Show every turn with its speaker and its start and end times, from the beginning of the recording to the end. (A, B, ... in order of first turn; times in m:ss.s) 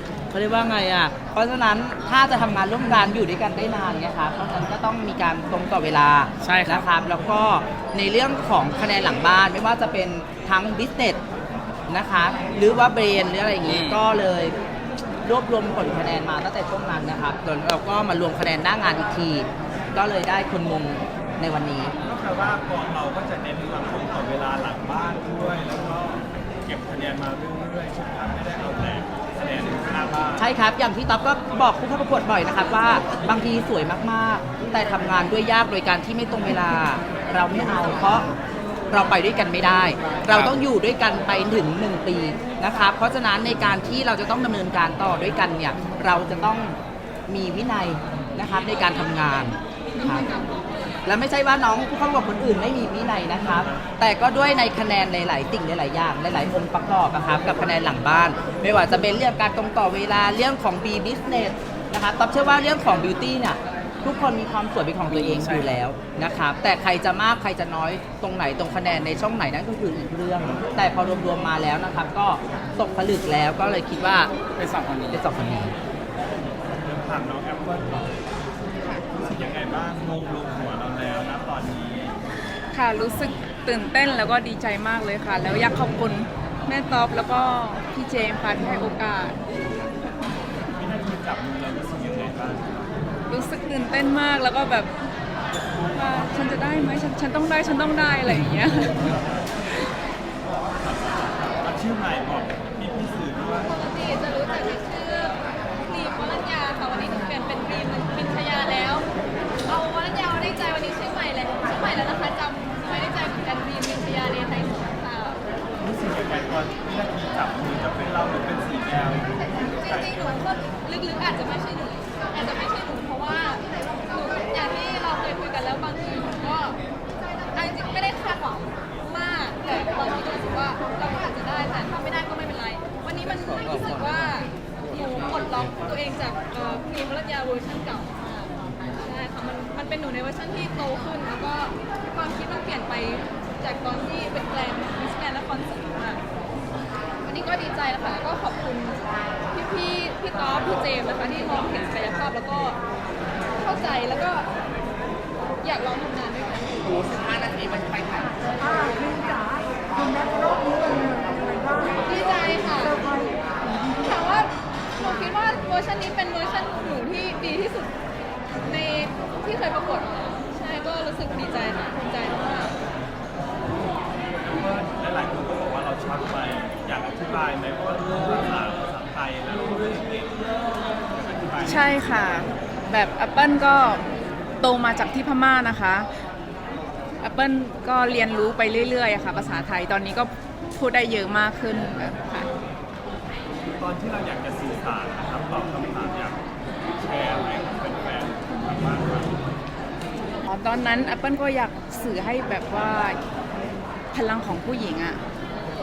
0:00.3-0:11.2 A
0:06.4-0:06.8 B
0:11.9-0:14.5 A
0:13.6-0:14.0 B
0:15.2-0:21.9 A
0:22.0-0:30.5 C
0:30.4-0:38.3 A
0:38.9-0:50.3 A
0:49.9-0:51.0 D
0:51.0-1:14.3 A
1:05.1-1:05.7 B
1:14.6-1:15.2 B
1:15.1-1:15.7 A
1:16.8-1:18.1 C
1:19.2-1:22.2 C
1:22.7-1:29.4 E
1:30.7-1:32.8 C
1:33.3-1:34.9 E
1:35.9-1:39.1 E
1:40.8-1:43.7 C
1:43.7-1:49.1 D
1:49.6-1:55.4 D
1:55.8-2:00.3 C
1:59.7-2:06.8 D
2:07.5-2:26.2 D
2:13.2-2:14.3 A
2:27.2-2:32.8 D
2:33.5-2:34.5 D
2:35.6-2:38.1 D
2:42.0-2:43.0 D
2:44.0-2:47.9 D
2:48.6-2:52.7 D
2:54.4-3:00.6 C
3:01.2-3:01.9 C
3:01.6-3:04.0 E
3:04.6-3:06.1 E
3:07.2-3:12.5 E
3:13.7-3:16.4 C
3:17.0-3:19.4 C
3:20.4-3:23.2 E
3:24.1-3:25.2 E